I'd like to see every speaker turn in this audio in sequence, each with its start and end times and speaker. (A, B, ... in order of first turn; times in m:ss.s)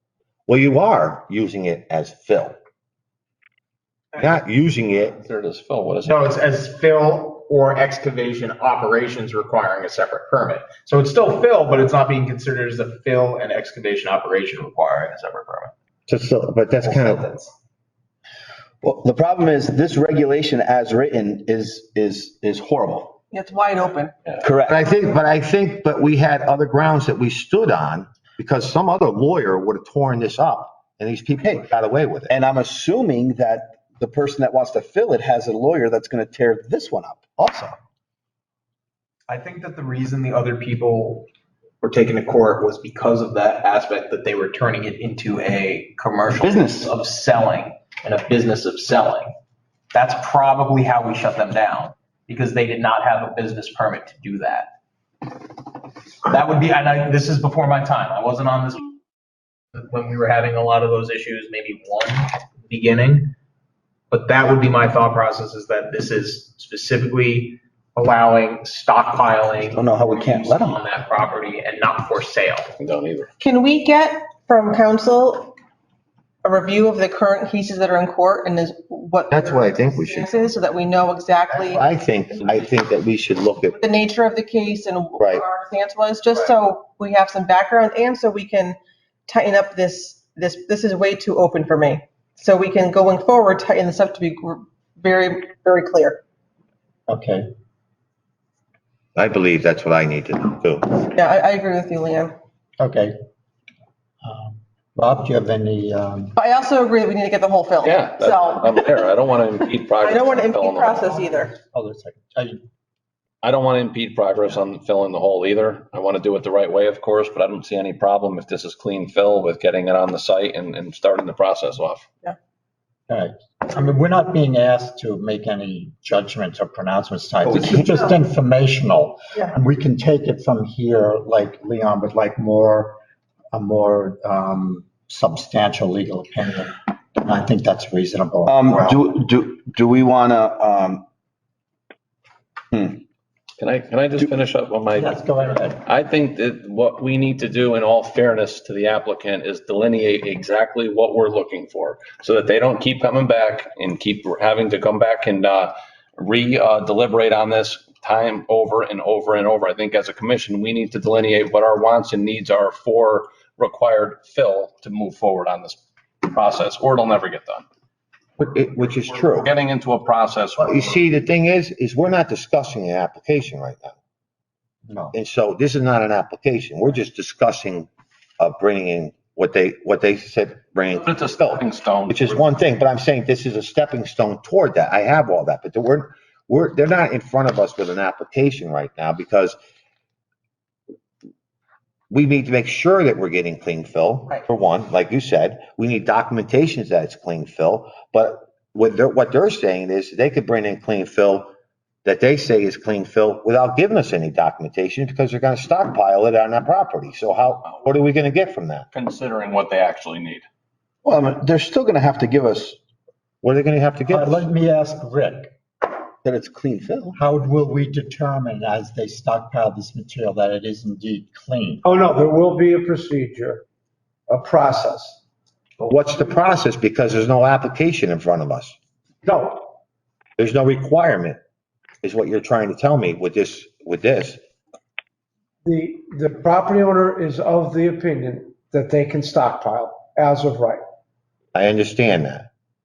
0:00.5-0:02.6 A
0:04.2-0:05.2 A
0:05.2-0:06.2 B
0:06.0-0:15.7 C
0:16.1-0:17.3 A
0:16.8-0:17.5 C
0:18.8-0:23.2 D
0:23.3-0:24.2 E
0:24.4-0:24.8 D
0:24.7-0:32.3 A
0:32.3-0:37.8 D
0:39.3-0:41.2 C
0:41.8-0:49.3 C
0:46.3-0:46.9 D
0:49.9-0:54.7 C
0:55.2-0:55.7 C
0:56.2-0:59.0 C
0:59.7-1:03.3 C
1:04.1-1:12.7 C
1:09.7-1:10.8 D
1:12.7-1:13.3 B
1:13.4-1:15.6 E
1:16.4-1:21.8 E
1:19.3-1:20.3 A
1:21.7-1:23.8 A
1:23.7-1:36.2 E
1:37.1-1:37.5 F
1:39.2-1:41.0 A
1:41.1-1:42.3 E
1:42.8-1:43.1 F
1:44.2-1:46.3 F
1:46.4-1:49.0 E
1:47.8-1:51.0 B
1:50.0-1:51.5 E
1:51.0-1:52.6 F
1:53.4-2:02.0 B
2:03.1-2:13.0 F
2:07.5-2:07.8 C
2:13.5-2:19.0 F
2:18.5-2:21.0 D
2:22.7-2:23.0 D
2:23.6-2:47.6 B
2:24.9-2:25.8 F
2:48.4-2:49.5 A
2:49.4-2:51.0 B
2:50.6-2:54.0 A
2:54.9-2:55.1 F
2:55.1-3:09.6 A
3:01.0-3:02.4 B
3:12.1-3:21.5 A
3:22.0-3:28.9 A
3:28.9-3:30.4 B
3:31.0-3:32.8 D
3:33.4-3:34.4 A
3:34.1-3:35.5 F
3:36.2-3:37.1 A
3:37.1-3:41.8 F
3:41.8-3:43.6 G
3:44.3-3:45.2 G
3:45.8-3:48.8 A
3:49.2-3:49.7 G
3:50.4-3:51.4 A
3:52.0-3:54.4 A
3:55.6-4:00.8 G
4:01.5-4:02.5 A